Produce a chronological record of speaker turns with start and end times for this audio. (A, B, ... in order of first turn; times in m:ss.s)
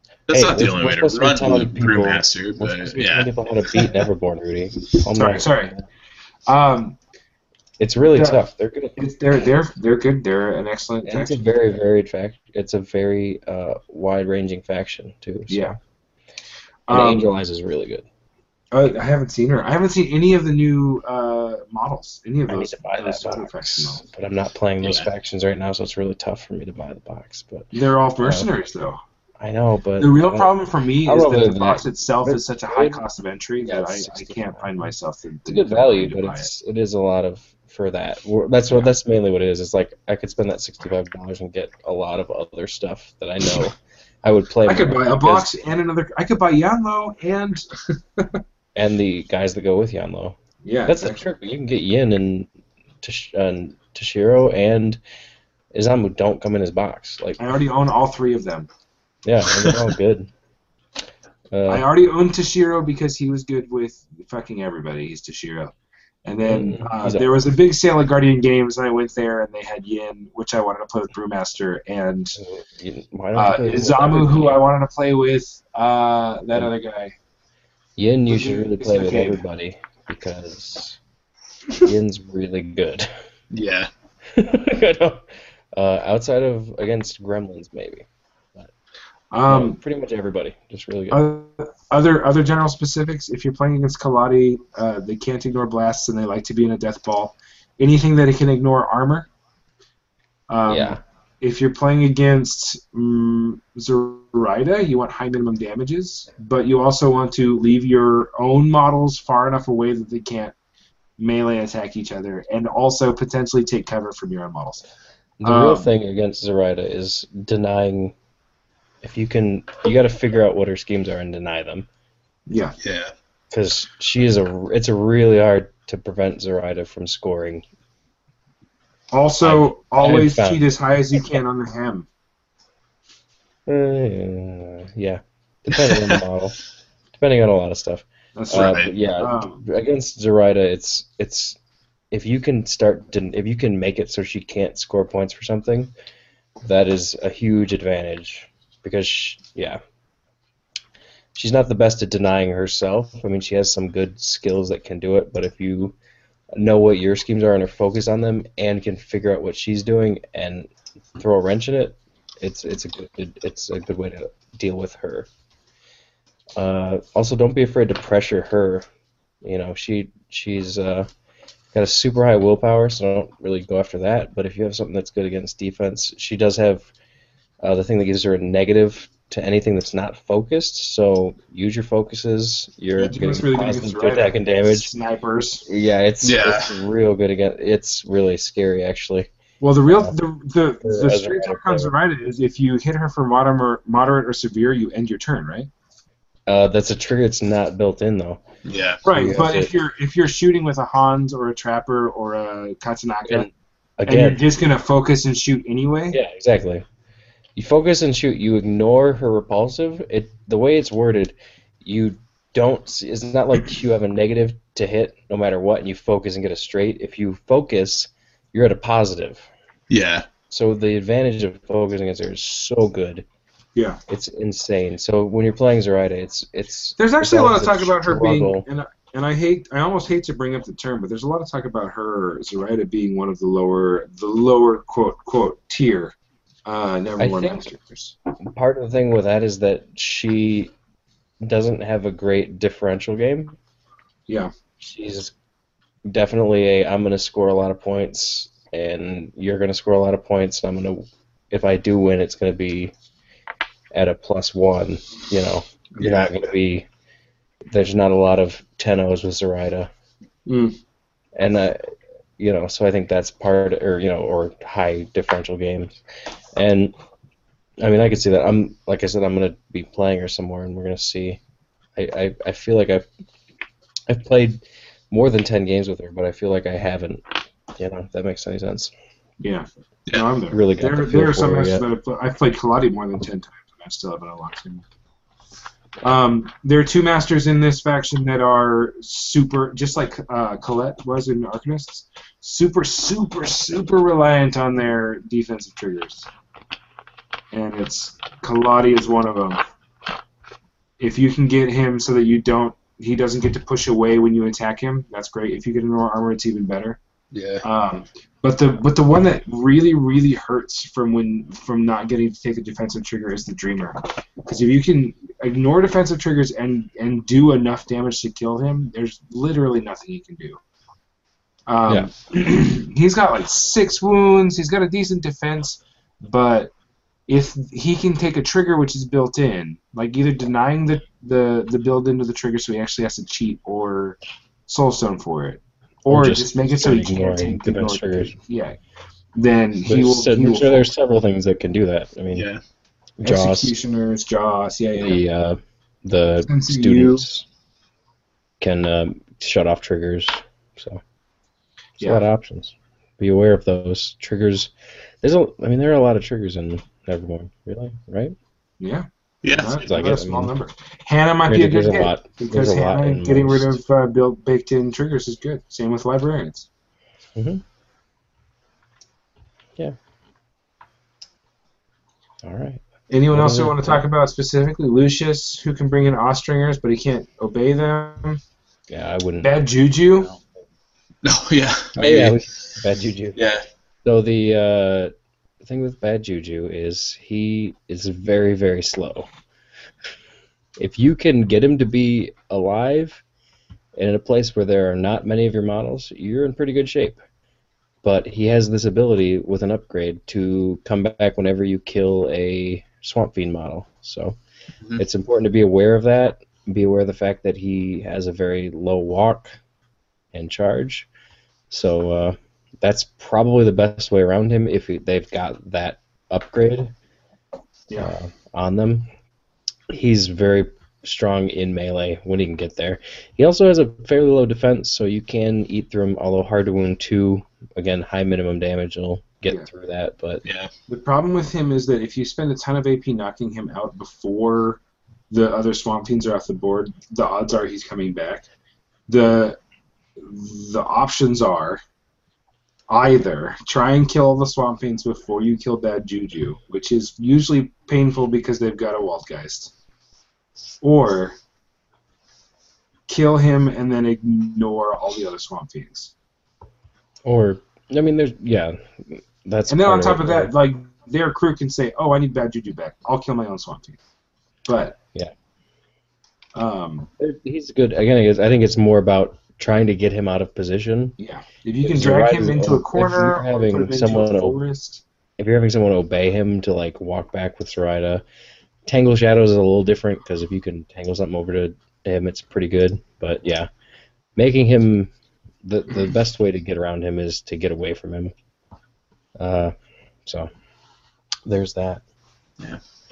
0:00.3-0:03.9 A
0:00.3-0:05.8 B
0:05.1-0:05.7 C
0:06.5-0:07.0 C
0:07.8-0:09.0 B
0:08.1-0:08.4 C
0:09.0-0:11.4 C
0:11.0-0:15.8 B
0:15.5-0:15.8 C
0:16.9-0:17.3 C
0:16.9-0:18.0 B
0:18.7-0:24.0 C
0:22.5-0:28.5 B
0:24.8-0:25.1 A
0:27.7-0:29.0 C
0:29.4-0:30.5 B
0:30.0-0:36.5 C
0:31.0-0:33.0 B
0:33.6-0:34.6 B
0:35.4-0:45.5 B
0:44.6-0:48.4 C
0:48.8-0:52.5 B
0:50.6-0:51.2 C
0:53.0-0:55.0 B
0:55.7-0:57.4 B
0:57.4-0:58.7 C
0:59.2-1:00.3 B
1:01.5-1:01.9 B
1:01.7-1:05.7 C
1:06.2-1:12.4 C
1:06.5-1:07.4 B
1:12.3-1:14.6 B
1:13.3-1:17.1 C
1:18.0-1:21.0 B
1:18.3-1:19.4 C
1:21.8-1:23.1 B
1:23.5-1:23.9 A
1:24.3-1:28.7 B
1:29.3-1:29.8 C
1:29.5-1:31.3 B
1:31.1-1:39.3 C
1:40.5-1:50.5 C
1:40.7-1:41.0 B
1:51.2-1:54.8 C
1:55.4-1:58.1 B
1:55.4-1:55.9 C
1:59.0-2:01.9 B
2:02.5-2:02.7 C
2:02.8-2:03.1 A
2:03.5-2:07.6 B
2:09.1-2:12.1 C
2:09.4-2:10.6 B
2:13.7-2:16.6 B
2:15.9-2:16.1 A
2:17.1-2:21.6 B
2:18.3-2:19.6 C
2:18.5-2:18.9 A
2:22.1-2:25.9 B
2:26.6-2:29.8 B
2:31.3-2:35.9 B
2:36.5-2:45.3 B
2:46.6-2:48.8 B
2:49.4-2:51.1 B
2:51.7-2:56.9 B
2:57.6-3:04.9 B
3:03.0-3:05.6 C
3:05.6-3:09.3 B
3:06.2-3:06.8 A
3:09.6-3:15.7 C
3:09.9-3:10.1 B
3:10.8-3:11.9 B
3:16.5-3:18.4 B
3:18.6-3:19.0 A
3:19.0-3:23.5 C
3:19.1-3:19.7 B
3:23.2-3:24.4 B
3:24.1-3:26.2 C
3:26.1-3:26.8 B
3:27.6-3:39.5 B
3:39.9-3:40.2 A
3:40.5-3:43.2 B
3:44.1-3:48.6 B
3:47.0-3:58.2 C
3:57.2-3:57.6 B
3:58.4-4:00.7 B
4:01.4-4:03.6 B
4:04.8-4:05.3 B
4:06.0-4:12.9 B
4:13.9-4:16.8 B
4:16.0-4:16.2 C
4:17.7-4:19.9 B
4:20.4-4:20.8 C
4:21.4-4:25.9 B
4:26.6-4:26.9 B
4:27.8-4:31.4 B
4:32.0-4:33.0 B
4:34.1-4:38.9 B
4:39.4-4:44.8 C
4:40.5-4:41.8 B
4:46.0-4:56.3 C
4:57.5-4:59.6 C
5:01.0-5:07.0 C
5:07.3-5:07.6 A
5:07.6-5:20.6 C
5:21.7-5:26.7 C
5:27.3-5:38.8 C
5:36.1-5:38.4 B
5:39.3-5:40.9 C
5:39.8-5:42.5 B
5:42.3-5:42.6 A
5:43.2-5:43.7 B
5:43.2-5:45.2 C
5:45.0-5:47.4 B
5:46.4-5:47.3 C
5:48.6-5:51.0 B
5:52.0-5:58.3 B
5:58.8-6:06.7 C
5:59.4-5:59.8 A
5:59.8-6:00.5 B
6:01.5-6:03.8 B
6:07.4-6:07.6 B
6:12.4-6:14.0 B
6:13.1-6:18.4 C
6:18.9-6:19.6 B
6:19.4-6:20.3 C
6:21.2-6:22.4 A
6:22.0-6:23.4 B
6:23.4-6:23.6 A
6:24.0-6:29.3 B
6:30.8-6:33.2 B
6:34.0-6:37.2 B
6:38.0-6:44.4 B
6:45.0-6:49.6 B
6:50.3-6:51.1 B
6:51.7-6:56.9 B
6:57.9-6:59.1 B
6:59.9-7:10.4 B
7:10.4-7:10.7 A
7:10.9-7:18.5 C
7:19.1-7:19.6 C
7:20.2-7:21.8 C
7:22.9-7:29.7 C
7:30.8-7:31.4 C
7:33.1-7:36.1 C
7:37.2-7:40.5 B
7:39.7-7:44.0 C
7:44.6-7:45.0 C
7:46.6-7:47.1 C
7:47.2-7:51.2 B
7:51.2-7:55.0 C
7:51.8-7:54.6 B
7:55.4-7:58.2 B
7:58.8-8:03.7 B
8:04.4-8:05.1 B
8:05.6-8:08.3 B
8:09.4-8:09.7 B
8:10.2-8:10.5 B
8:11.4-8:12.0 B